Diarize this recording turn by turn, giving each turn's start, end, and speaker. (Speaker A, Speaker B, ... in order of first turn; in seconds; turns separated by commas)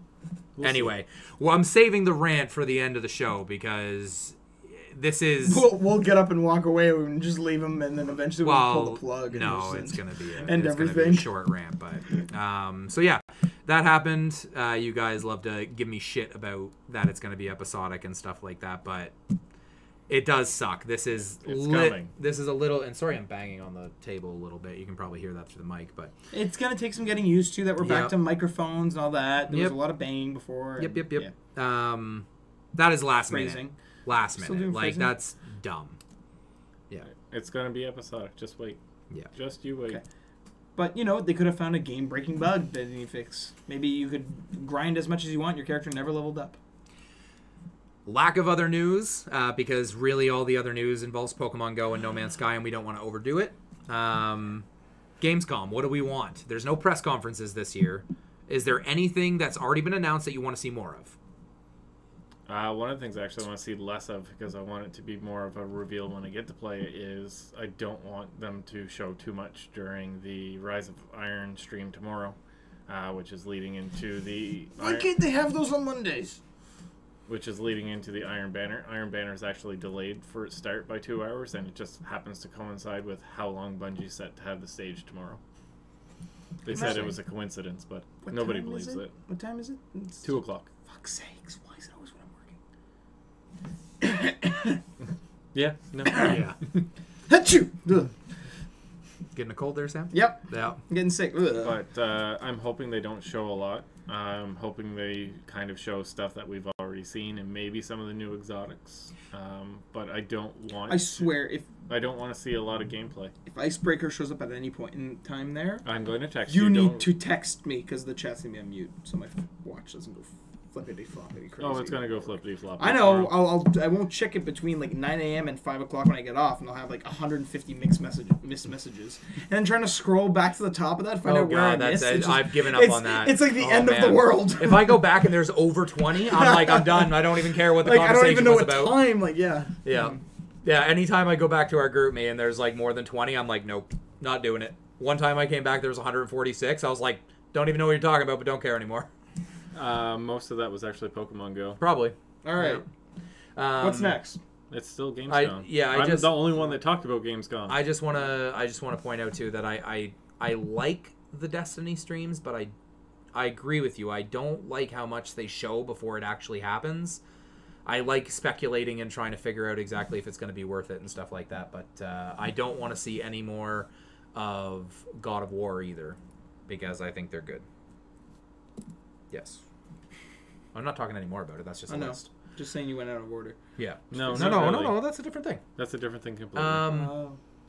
Speaker A: 0.6-0.9, Speaker B: 0.6-5.7, Speaker C: 5.5-11.3, Speaker B: 8.4-19.1, Speaker B: 20.1-26.1, Speaker A: 21.4-22.1, Speaker C: 26.3-31.3, Speaker B: 27.8-28.1, Speaker B: 29.5-29.8, Speaker B: 30.8-36.0, Speaker C: 33.3-33.7, Speaker C: 34.3-35.1, Speaker A: 37.1-38.8, Speaker A: 39.3-40.0, Speaker C: 40.8-46.6, Speaker B: 48.0-54.6, Speaker B: 55.2-61.1, Speaker A: 62.5-75.1, Speaker C: 74.8-76.4, Speaker A: 77.3-85.4, Speaker A: 86.6-89.1, Speaker C: 86.7-87.2, Speaker C: 88.2-92.5, Speaker A: 90.2-90.7, Speaker C: 94.0-94.8, Speaker A: 95.5-96.4, Speaker C: 96.0-96.4, Speaker B: 96.2-96.6, Speaker C: 97.3-98.1, Speaker B: 99.3-100.8, Speaker C: 100.1-101.8, Speaker A: 101.5-111.3, Speaker C: 110.9-111.7, Speaker A: 111.9-113.3, Speaker C: 113.5-115.8, Speaker A: 115.8-117.1, Speaker C: 116.5-135.1, Speaker A: 121.6-123.5, Speaker B: 131.2-139.1, Speaker C: 136.2-140.2, Speaker B: 139.8-149.1, Speaker A: 149.7-151.8, Speaker B: 151.8-152.8, Speaker C: 152.4-152.8, Speaker B: 153.6-154.2, Speaker C: 153.8-154.4, Speaker A: 154.7-157.8, Speaker B: 155.3-156.4, Speaker B: 157.7-162.7, Speaker B: 163.3-167.2, Speaker B: 167.8-176.2, Speaker B: 176.7-177.6, Speaker B: 179.3-179.6, Speaker B: 180.7-182.3, Speaker C: 181.9-183.6, Speaker B: 183.8-185.6, Speaker A: 184.1-185.0, Speaker A: 185.8-186.9, Speaker B: 186.5-187.2, Speaker C: 186.8-187.4